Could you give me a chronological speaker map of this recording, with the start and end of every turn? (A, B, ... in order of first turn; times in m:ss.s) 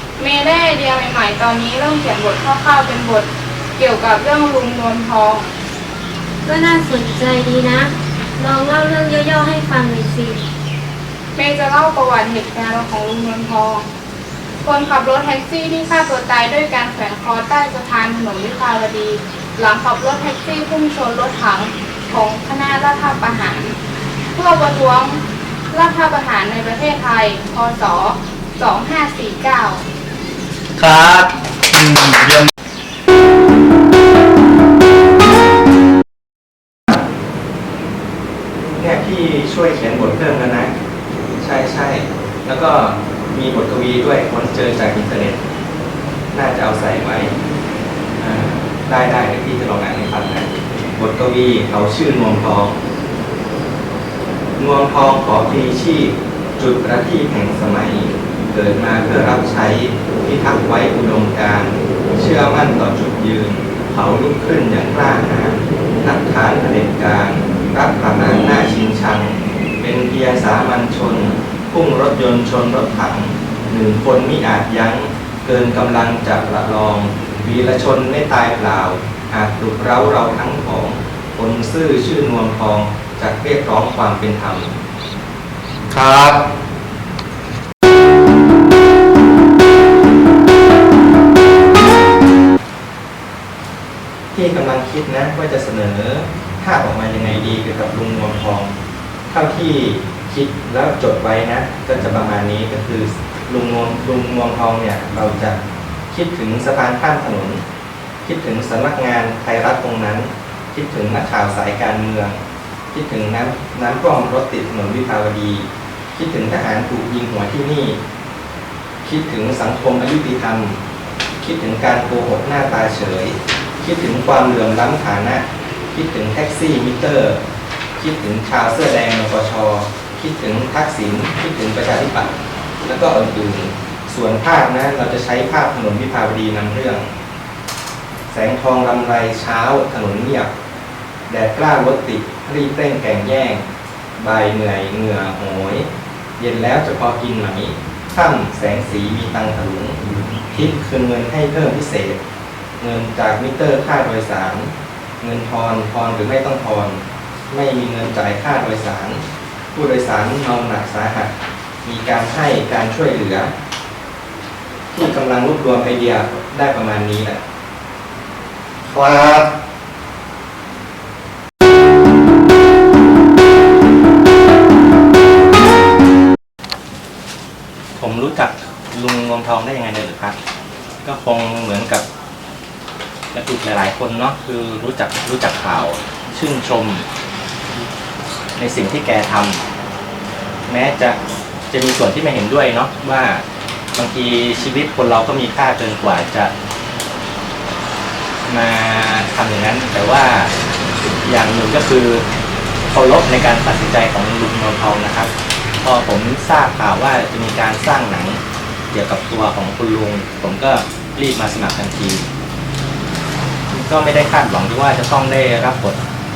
0:00.2-0:05.5 A
0:06.4-0:10.4 B
0:11.3-0:13.9 A
0:14.6-0:23.8 A
0:24.3-0:29.8 A
0:30.8-0:32.5 C
0:38.6-0:40.7 D
0:41.4-0:45.4 D
0:46.3-0:47.3 D
0:48.2-0:52.8 D
0:54.6-1:24.8 D
1:25.9-1:26.4 C
1:34.3-1:38.7 D
1:39.3-1:47.6 D
1:48.2-1:52.4 D
1:52.9-1:58.0 D
1:59.0-2:00.8 D
2:01.4-2:07.4 D
2:08.0-2:12.3 D
2:12.8-2:17.1 D
2:18.3-2:20.5 D
2:21.3-2:23.6 D
2:24.2-2:32.2 D
2:32.8-2:39.2 D
2:39.7-2:43.5 D
2:44.9-2:47.4 D
2:48.9-2:49.4 C
2:58.0-3:00.4 D
3:01.0-3:02.0 D
3:03.3-3:07.1 D
3:08.6-3:09.6 D
3:10.7-3:11.2 D
3:11.7-3:16.5 D
3:18.5-3:20.5 D
3:21.2-3:22.2 D
3:22.9-3:25.3 D
3:25.8-3:28.4 D
3:28.9-3:32.3 D
3:33.7-3:36.0 D